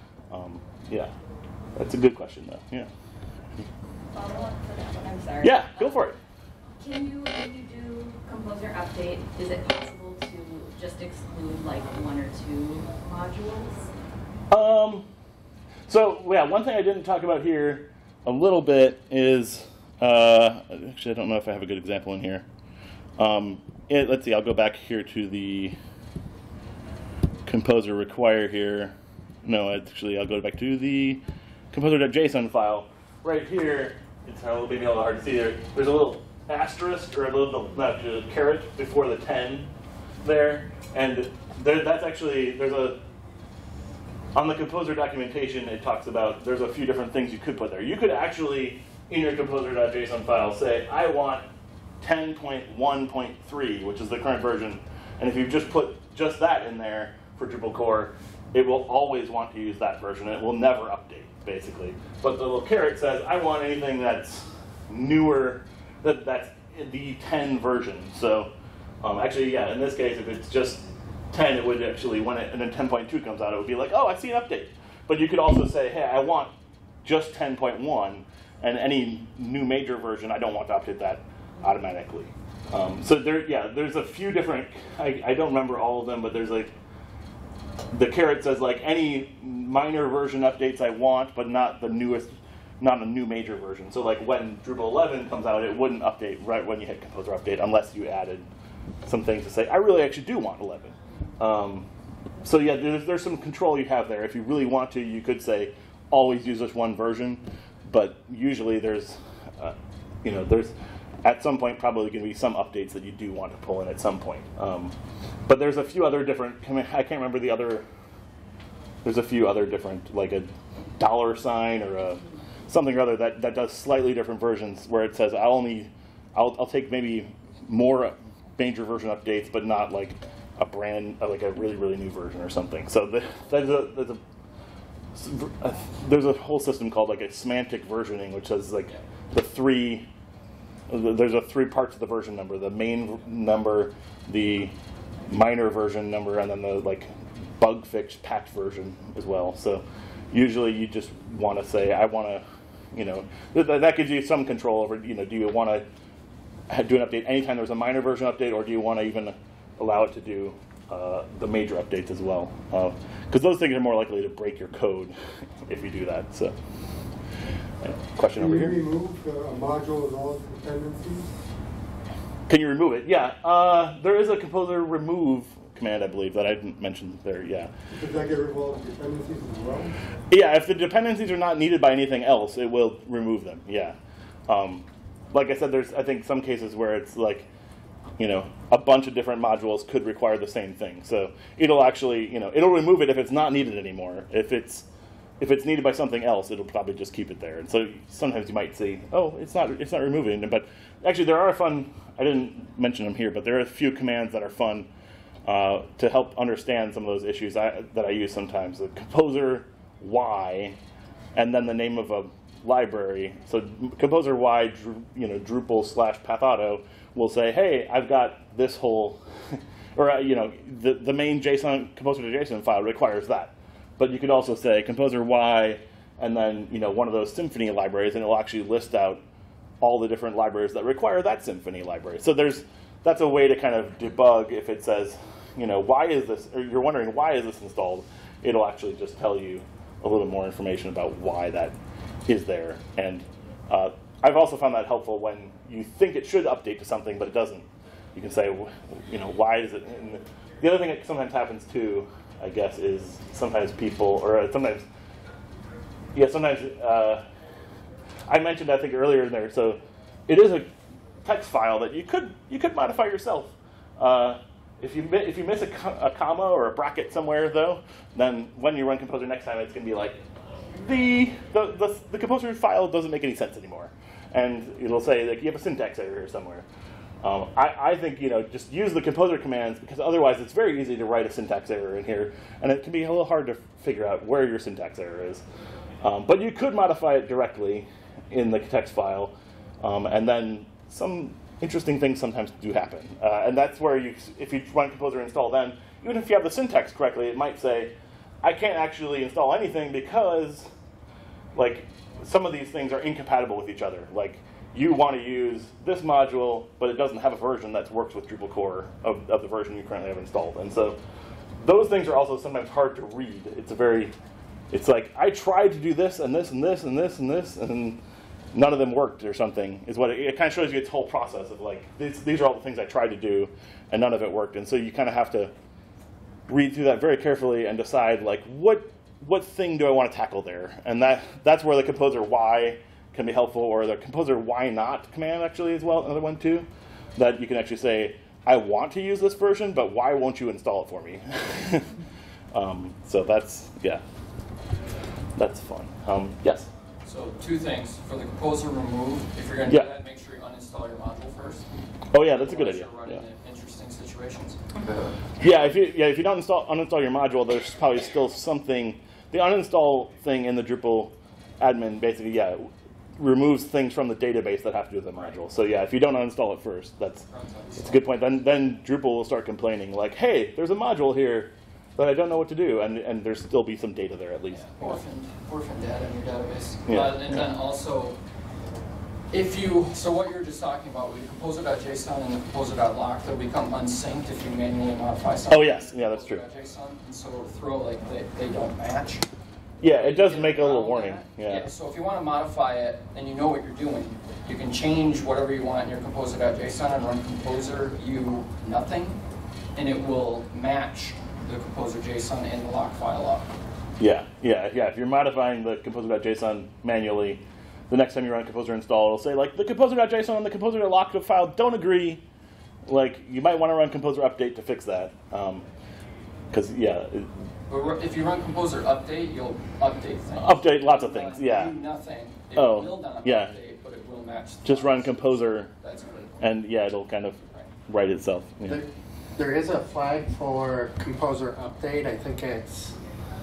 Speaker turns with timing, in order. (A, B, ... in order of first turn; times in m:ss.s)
0:00.3-0:01.1 A
0:01.8-0:02.9 A
0:04.1-0:06.0 B
0:05.4-0:06.2 A
0:06.8-0:13.9 B
0:14.5-0:15.1 A
0:15.9-0:22.4 A
0:23.2-0:25.8 A
0:27.4-0:31.2 A
0:31.7-0:39.7 A
0:40.2-0:43.0 A
0:44.3-0:51.4 A
0:52.0-1:16.5 A
1:17.0-1:26.7 A
1:27.9-1:38.5 A
1:39.0-1:41.9 A
1:42.4-1:54.9 A
1:55.5-1:57.8 A
1:59.0-2:14.2 A
2:15.1-2:20.1 A
2:20.9-2:24.7 A
2:25.3-2:35.8 A
2:36.7-2:46.6 A
2:47.8-2:48.8 A
2:48.4-2:51.3 C
2:52.5-2:57.7 A
2:57.9-3:00.0 C
3:00.3-3:04.0 A
3:04.5-3:07.5 A
3:08.2-3:14.9 A
3:15.4-3:24.9 A
3:25.4-3:30.8 A
3:31.3-3:49.2 A
3:49.8-4:01.7 A
4:02.3-4:14.8 A
4:16.1-4:17.2 A
4:18.3-4:20.7 A
4:21.2-4:30.2 A
4:30.7-4:36.6 A
4:37.2-4:45.4 A
4:46.0-5:00.7 A
5:01.5-5:11.0 A
5:11.6-5:14.1 A
5:14.7-5:18.0 A
5:18.5-5:25.5 A
5:26.5-5:42.0 A
5:42.5-5:44.0 A
5:45.4-5:46.7 A
5:47.0-5:51.7 D
5:52.1-5:53.2 A
5:52.2-5:54.6 D
5:54.7-5:55.0 B
5:55.4-6:07.2 A
6:07.3-6:08.0 D
6:07.8-6:15.0 A
6:14.5-6:18.2 D
6:16.8-6:17.5 A
6:19.3-6:29.2 D
6:25.5-6:26.4 A
6:29.8-6:31.7 A
6:29.8-6:39.2 D
6:39.7-6:43.5 D
6:44.0-6:52.2 A
6:52.8-6:55.6 A
6:56.5-6:57.3 A
6:57.7-7:06.4 D
7:00.4-7:01.7 A
7:02.5-7:03.5 A
7:04.6-7:05.7 A
7:06.4-7:08.8 A
7:08.6-7:13.0 E